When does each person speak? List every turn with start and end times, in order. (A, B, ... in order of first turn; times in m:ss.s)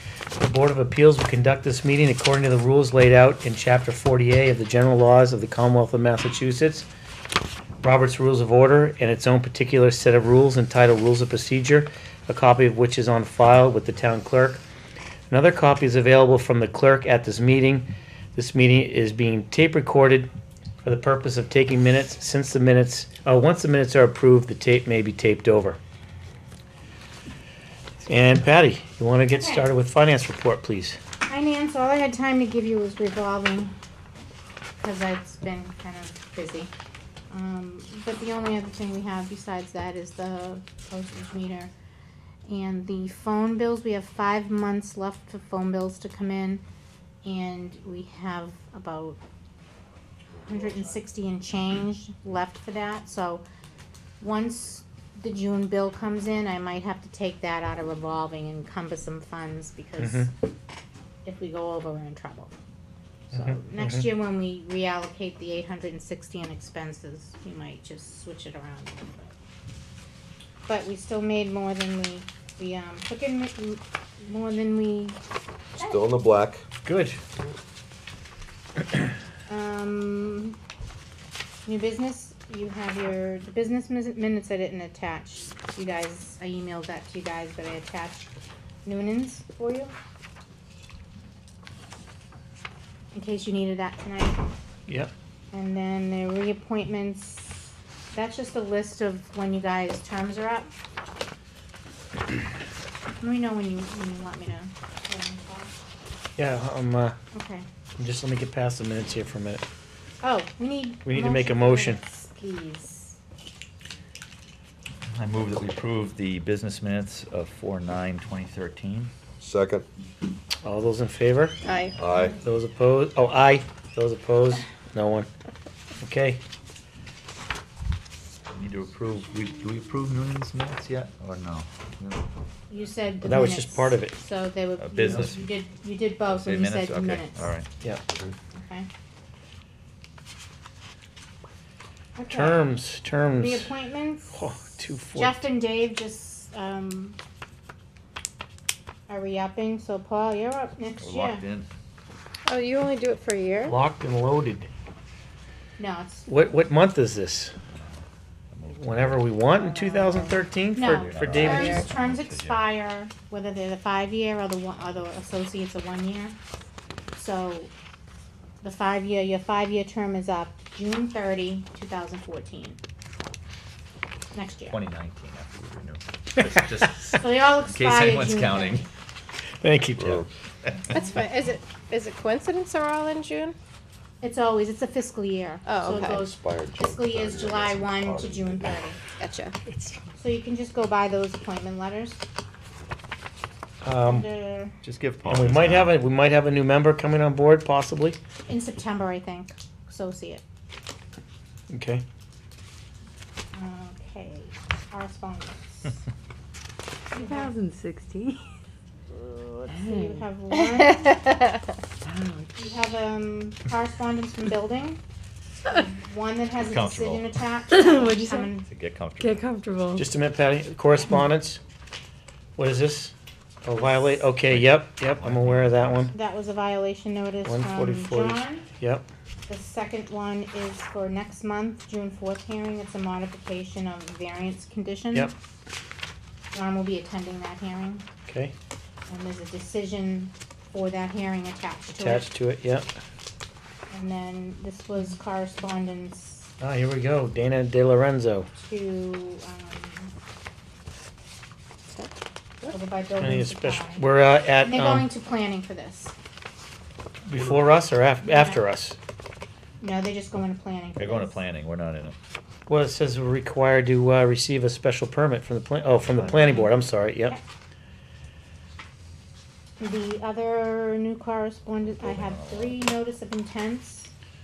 0:00.4-0:06.9 A
0:07.8-0:14.6 A
0:15.3-0:20.3 A
0:20.8-0:25.8 A
0:28.1-0:31.0 A
0:29.3-0:29.7 B
0:31.3-0:33.7 B
0:34.8-0:36.7 B
0:37.3-0:41.7 B
0:42.5-0:46.6 B
0:47.2-0:49.2 B
0:50.4-0:53.4 B
0:54.2-1:00.3 B
1:00.0-1:00.3 A
1:01.2-1:02.5 B
1:03.3-1:09.3 B
1:03.3-1:04.1 A
1:10.7-1:15.2 B
1:15.8-1:16.0 B
1:15.8-1:16.6 C
1:16.8-1:17.2 A
1:19.5-1:20.6 B
1:21.7-1:28.3 B
1:28.8-1:29.9 B
1:33.1-1:34.4 B
1:34.9-1:35.1 A
1:35.5-1:40.7 B
1:43.2-1:45.7 B
1:46.4-1:47.2 A
1:47.3-1:47.7 B
1:48.0-1:49.6 A
1:50.2-1:53.2 B
1:51.0-1:52.0 A
1:55.1-1:59.1 D
1:59.4-1:59.9 C
2:00.6-2:01.6 A
2:01.6-2:02.0 E
2:02.0-2:02.4 C
2:02.4-2:05.3 A
2:06.0-2:06.4 A
2:08.5-2:12.2 D
2:12.7-2:17.6 B
2:13.2-2:14.2 A
2:14.8-2:15.4 D
2:16.3-2:17.7 D
2:18.5-2:18.9 B
2:22.2-2:22.6 B
2:22.3-2:23.6 A
2:23.3-2:24.6 B
2:24.3-2:25.4 A
2:25.1-2:27.2 B
2:29.1-2:31.4 B
2:31.0-2:31.7 D
2:32.5-2:33.8 E
2:33.6-2:34.7 A
2:35.8-2:36.3 B
2:36.3-2:37.5 A
2:38.5-2:39.3 D
2:38.7-2:41.9 A
2:39.9-2:40.2 F
2:40.7-2:46.4 B
2:40.8-2:42.6 D
2:47.2-2:47.7 B
2:48.6-2:52.8 B
2:54.3-2:54.8 B
2:54.7-2:58.9 D
2:57.1-2:58.9 B
2:59.6-3:00.2 A
3:00.0-3:00.3 C
3:00.9-3:03.6 E
3:04.2-3:09.0 B
3:05.6-3:06.3 E
3:05.8-3:08.8 C
3:09.1-3:09.6 E
3:09.7-3:10.0 A
3:10.2-3:12.2 B
3:13.8-3:14.3 A
3:14.0-3:14.8 B
3:14.8-3:16.0 D
3:15.2-3:18.2 A
3:18.5-3:20.4 B
3:21.7-3:22.0 A
3:23.5-3:26.0 B
3:27.1-3:28.4 F
3:27.1-3:27.5 B
3:29.7-3:30.3 F
3:29.7-3:31.0 B
3:30.8-3:31.3 E
3:31.2-3:32.5 F
3:32.6-3:35.0 B
3:35.7-3:38.7 B
3:36.6-3:37.3 D
3:37.7-3:38.5 F
3:38.6-3:39.5 D
3:39.2-3:40.0 F
3:40.0-3:41.6 A
3:42.6-3:43.1 A
3:43.6-3:46.1 A
3:43.8-3:44.2 B
3:44.5-3:46.1 D
3:46.1-3:48.6 B
3:47.4-3:49.1 A
3:49.5-3:55.3 B
3:56.5-3:58.1 B
3:58.3-3:58.5 A
3:59.1-4:02.3 B
4:01.9-4:02.9 A
4:03.9-4:06.5 B
4:06.6-4:08.5 A
4:08.6-4:10.1 B
4:12.7-4:14.1 B
4:13.2-4:15.1 A
4:14.6-4:16.2 B
4:17.3-4:19.0 A
4:18.2-4:18.6 B
4:19.8-4:21.4 B
4:21.0-4:22.2 D
4:22.7-4:27.4 A
4:29.8-4:34.1 B
4:32.0-4:32.8 D